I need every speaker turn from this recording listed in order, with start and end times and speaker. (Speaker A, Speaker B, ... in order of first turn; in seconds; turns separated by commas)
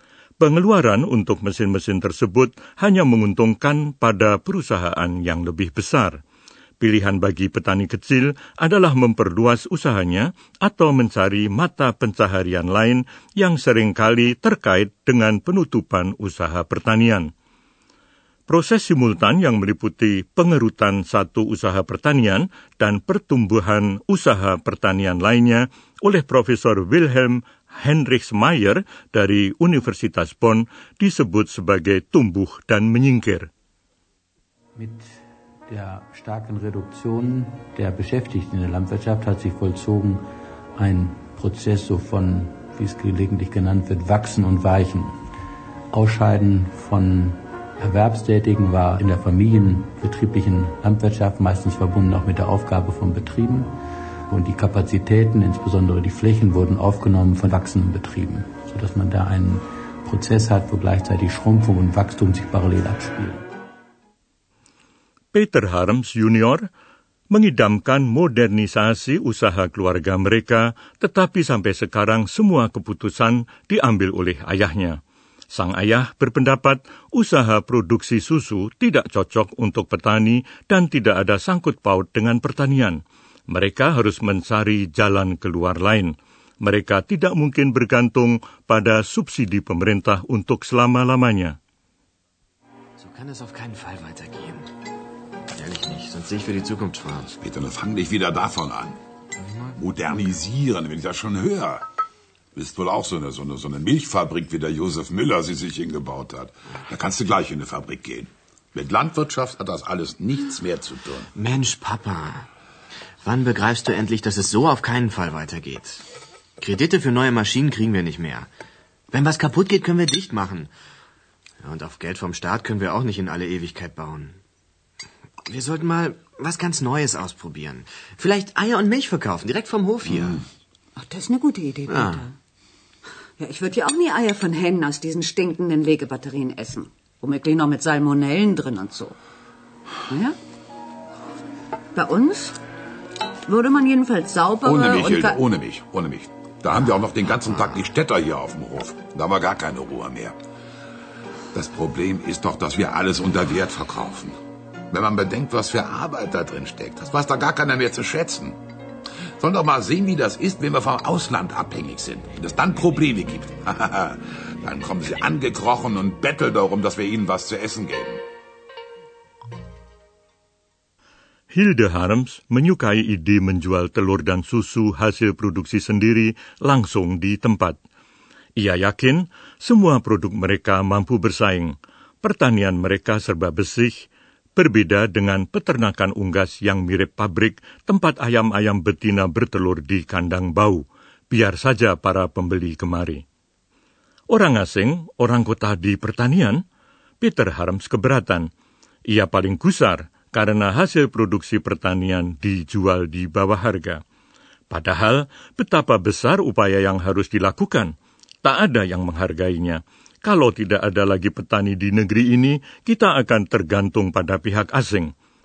Speaker A: 0.4-6.2, Speaker A: 6.8-17.3, Speaker A: 18.5-33.5, Speaker B: 34.8-35.2, Speaker B: 35.7-40.2, Speaker B: 40.8-45.2, Speaker B: 45.9-53.7, Speaker B: 54.3-63.4, Speaker A: 65.3-66.7, Speaker A: 67.3-75.0, Speaker A: 75.5-91.6, Speaker C: 93.0-94.7, Speaker C: 95.5-97.3, Speaker D: 97.4-99.0, Speaker D: 99.8-101.8, Speaker D: 102.5-111.3, Speaker C: 111.3-112.5, Speaker C: 113.2-116.0, Speaker C: 116.6-118.5, Speaker C: 119.1-120.7, Speaker C: 121.6-124.4, Speaker C: 125.5-130.4, Speaker E: 131.0-132.4, Speaker C: 131.9-132.2, Speaker E: 133.4-139.2, Speaker E: 140.1-140.4, Speaker E: 141.9-142.6, Speaker E: 143.5-145.4, Speaker D: 144.6-150.4, Speaker D: 151.5-154.4, Speaker D: 154.9-158.6, Speaker D: 159.4-168.2, Speaker A: 171.5-177.8, Speaker A: 178.6-193.2, Speaker A: 194.3-196.6, Speaker A: 197.2-198.5, Speaker A: 199.1-204.0, Speaker A: 204.7-207.9, Speaker A: 208.4-215.1